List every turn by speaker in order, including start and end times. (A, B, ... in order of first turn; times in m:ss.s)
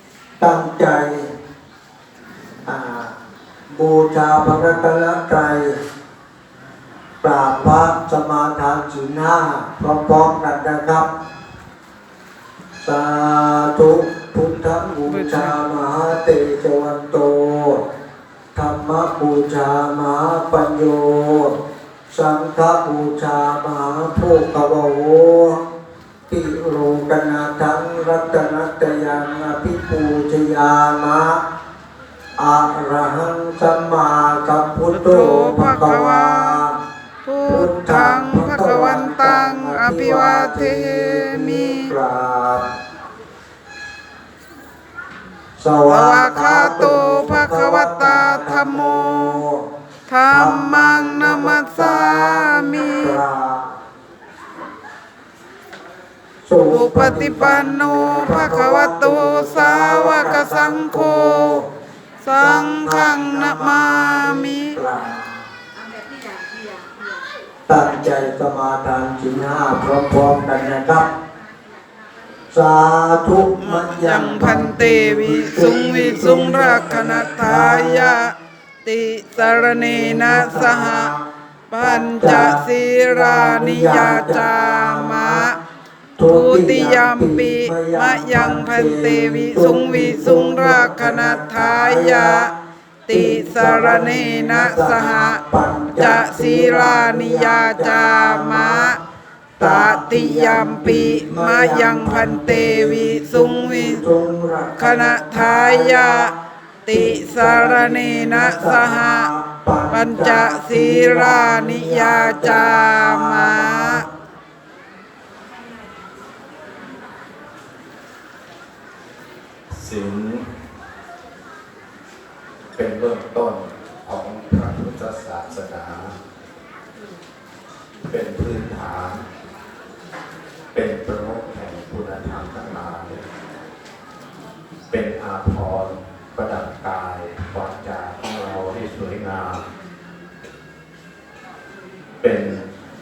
0:00.4-0:01.3 A
0:02.6-0:03.1 A
0:03.7-0:05.8 A
0:07.2-0:11.1 A
0:12.8-0:17.8 A
0:14.8-0:15.6 B
0:18.5-0:21.6 A
0:22.1-0:25.6 A
0:26.3-0:31.4 A
0:32.4-0:36.8 A
0:34.9-0:36.6 B
0:37.2-0:41.9 B
0:37.5-0:42.7 A
0:45.6-0:49.6 A
0:45.9-0:49.4 B
0:50.1-0:53.2 B
0:50.3-0:53.7 A
0:56.4-1:01.6 A
0:56.7-1:01.6 B
1:02.2-1:04.8 B
1:02.3-1:05.4 A
1:07.7-1:11.1 A
1:12.5-1:18.2 A
1:13.6-1:21.1 B
1:19.4-1:21.3 A
1:21.7-1:25.6 B
1:21.8-1:25.4 A
1:26.2-1:32.4 A
1:26.3-1:32.5 B
1:33.1-1:39.0 B
1:33.1-1:38.9 A
1:39.6-1:46.3 A
1:39.6-1:44.0 B
1:44.8-1:46.3 B
1:46.9-1:49.3 B
1:46.9-1:54.1 A
1:49.9-1:54.1 B
1:59.7-2:00.5 C
2:02.8-2:06.2 C
2:08.1-2:09.2 C
2:10.7-2:13.2 C
2:14.9-2:19.6 C
2:22.2-2:22.6 C